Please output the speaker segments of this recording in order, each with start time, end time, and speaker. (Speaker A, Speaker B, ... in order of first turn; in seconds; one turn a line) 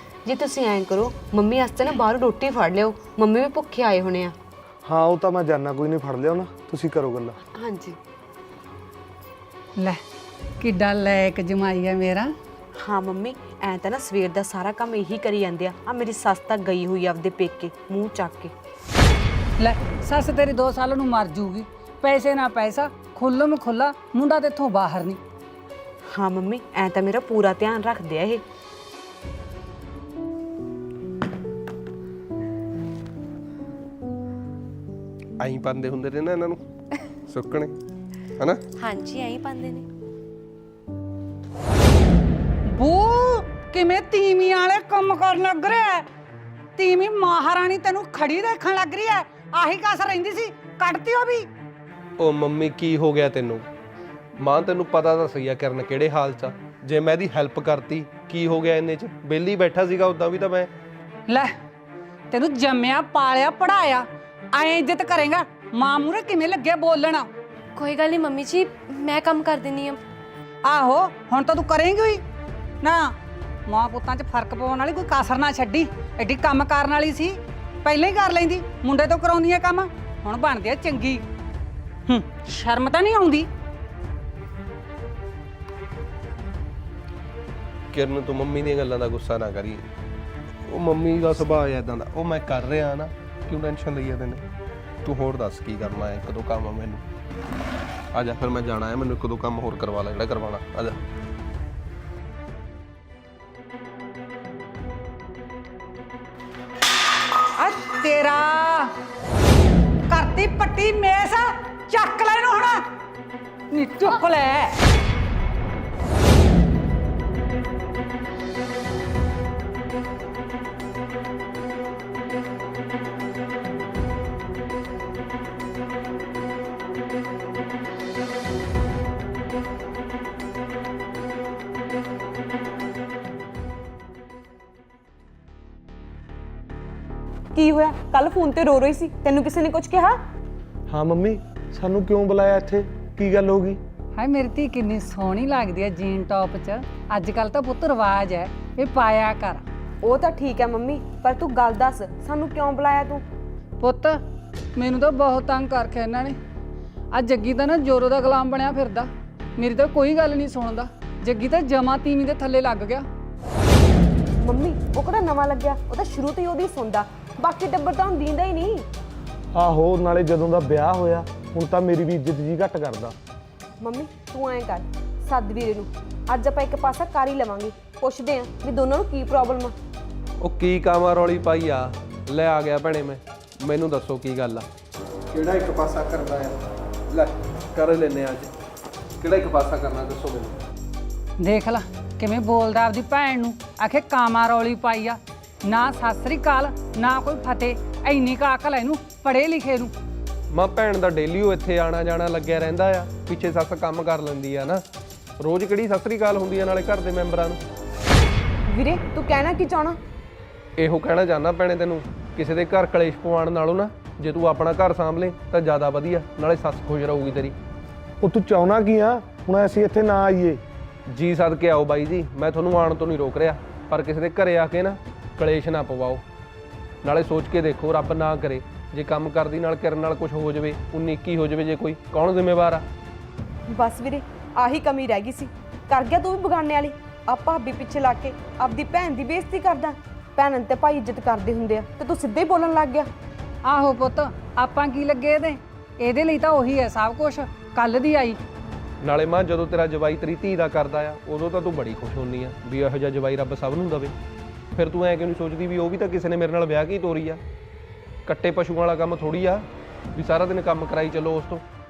Speaker A: 0.2-4.3
Speaker B: 4.8-7.4
Speaker A: 7.5-8.0
Speaker C: 9.8-10.0
Speaker C: 10.6-12.3
Speaker A: 12.8-18.5
Speaker C: 19.6-25.2
Speaker A: 26.1-28.4
Speaker D: 35.4-36.6
Speaker D: 37.2-37.8
Speaker D: 38.4-38.6
Speaker E: 38.8-39.9
Speaker C: 42.7-46.1
Speaker C: 46.8-51.5
Speaker D: 52.2-53.7
Speaker D: 54.4-60.7
Speaker C: 61.3-61.5
Speaker C: 62.3-67.3
Speaker E: 67.8-70.0
Speaker C: 70.6-72.2
Speaker C: 72.8-73.2
Speaker C: 73.7-81.2
Speaker C: 82.1-83.5
Speaker D: 87.9-89.9
Speaker D: 90.7-94.4
Speaker D: 95.0-97.0
Speaker D: 98.1-101.0
Speaker C: 107.5-108.9
Speaker C: 110.1-112.8
Speaker C: 113.7-114.8
Speaker A: 137.5-140.2
Speaker B: 140.9-143.8
Speaker C: 144.2-149.6
Speaker A: 150.0-153.2
Speaker C: 153.8-154.2
Speaker C: 154.8-156.4
Speaker C: 157.1-163.1
Speaker A: 164.4-168.9
Speaker B: 169.5-173.2
Speaker A: 173.8-179.8
Speaker D: 180.4-184.7
Speaker D: 185.3-186.6
Speaker D: 187.1-188.5
Speaker D: 189.2-190.6
Speaker C: 191.4-199.9
Speaker D: 200.5-204.8
Speaker D: 205.4-207.6
Speaker A: 208.7-210.0
Speaker D: 210.8-217.6
Speaker B: 218.2-220.6
Speaker D: 221.1-226.2
Speaker D: 227.0-232.9
Speaker A: 233.7-243.1
Speaker C: 243.6-248.4
Speaker D: 249.0-254.2
Speaker D: 254.8-257.4
Speaker D: 258.3-261.6